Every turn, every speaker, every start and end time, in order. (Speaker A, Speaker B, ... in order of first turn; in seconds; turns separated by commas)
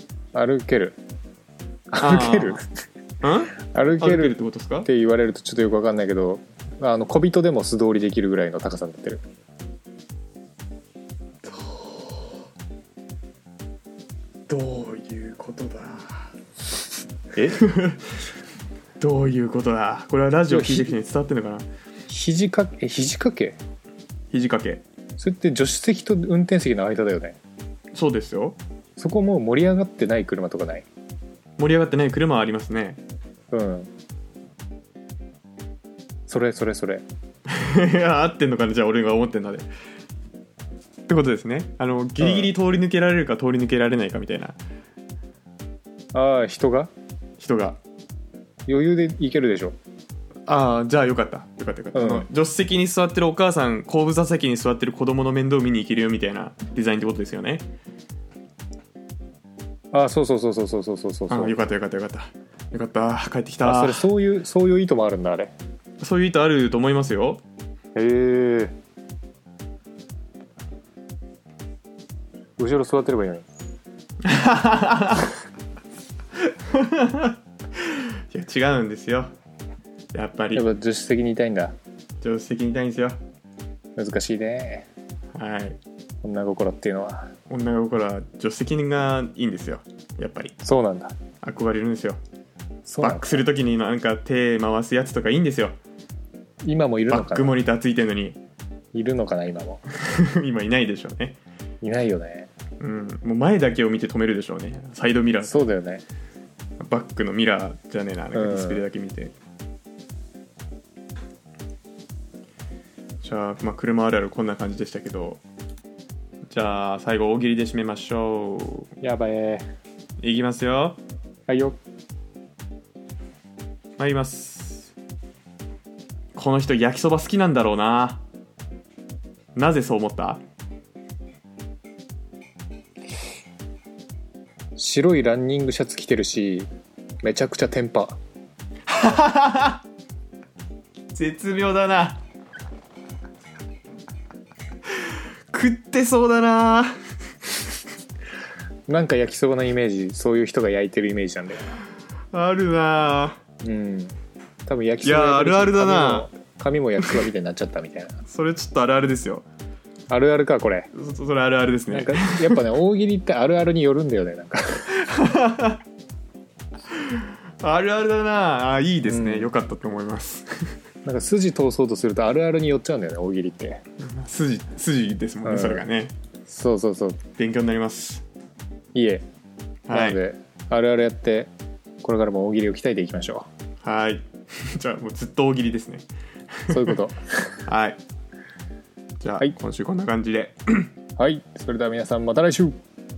Speaker A: 0.3-1.0, Speaker A: 1.9-2.6, Speaker B: 2.0-2.6, Speaker B: 3.2-4.9, Speaker A: 3.7-9.2, Speaker B: 11.4-12.4, Speaker B: 14.5-16.3, Speaker A: 17.4-17.6, Speaker B: 17.6-18.1, Speaker B: 19.0-21.7, Speaker A: 20.5-20.9, Speaker A: 22.1-23.6, Speaker B: 24.3-24.8, Speaker A: 25.2-27.4, Speaker B: 27.9-28.6, Speaker A: 29.0-30.9, Speaker B: 31.6-33.0, Speaker A: 33.5-33.9, Speaker A: 36.3-37.0, Speaker B: 37.5-39.7, Speaker B: 41.1-44.6, Speaker A: 42.2-42.5, Speaker A: 46.1-46.9, Speaker B: 47.4-47.8, Speaker A: 48.7-49.8, Speaker B: 50.5-57.7, Speaker A: 51.9-52.3, Speaker A: 59.9-61.5, Speaker B: 61.3-64.1, Speaker A: 63.6-65.5, Speaker B: 66.0-67.4, Speaker A: 68.0-68.7, Speaker A: 72.6-73.5, Speaker B: 74.2-75.3, Speaker B: 76.4-79.3, Speaker B: 80.1-80.7, Speaker A: 80.5-81.8, Speaker B: 82.2-83.2, Speaker A: 84.0-84.9, Speaker B: 85.3-85.8, Speaker A: 86.2-87.3, Speaker B: 87.5-90.5, Speaker A: 90.6-91.1, Speaker B: 91.4-92.2, Speaker A: 92.9-93.4, Speaker B: 93.0-95.8, Speaker A: 96.7-97.6, Speaker B: 97.1-98.4, Speaker A: 98.9-99.8, Speaker B: 99.9-101.4, Speaker A: 101.8-102.5, Speaker B: 102.8-105.7, Speaker A: 105.4-106.0, Speaker B: 106.8-109.3, Speaker A: 108.3-108.9, Speaker B: 113.2-115.4, Speaker B: 116.5-118.9, Speaker A: 119.0-119.7, Speaker B: 120.2-121.0, Speaker A: 121.5-121.8, Speaker B: 124.0-124.9, Speaker B: 126.3-128.2, Speaker B: 129.6-130.4, Speaker A: 134.8-136.7, Speaker A: 137.2-138.2, Speaker B: 138.9-139.8, Speaker B: 141.1-142.2, Speaker B: 144.9-146.9, Speaker A: 148.9-151.7, Speaker B: 152.3-153.4, Speaker A: 153.6-158.2, Speaker B: 155.0-156.3, Speaker B: 158.3-159.5, Speaker A: 160.1-160.9, Speaker B: 160.9-162.6, Speaker A: 161.9-165.0, Speaker B: 164.9-165.8, Speaker B: 166.9-170.7, Speaker A: 169.1-169.5, Speaker A: 171.1-173.8, Speaker B: 174.0-176.1, Speaker A: 175.4-175.8, Speaker A: 176.5-177.2, Speaker B: 177.4-178.2, Speaker A: 178.9-179.2, Speaker B: 179.9-180.2, Speaker A: 179.9-181.5, Speaker A: 182.0-183.5, Speaker B: 183.8-187.0, Speaker A: 186.7-187.6, Speaker B: 187.7-188.0, Speaker B: 189.2-190.9, Speaker A: 191.2-192.8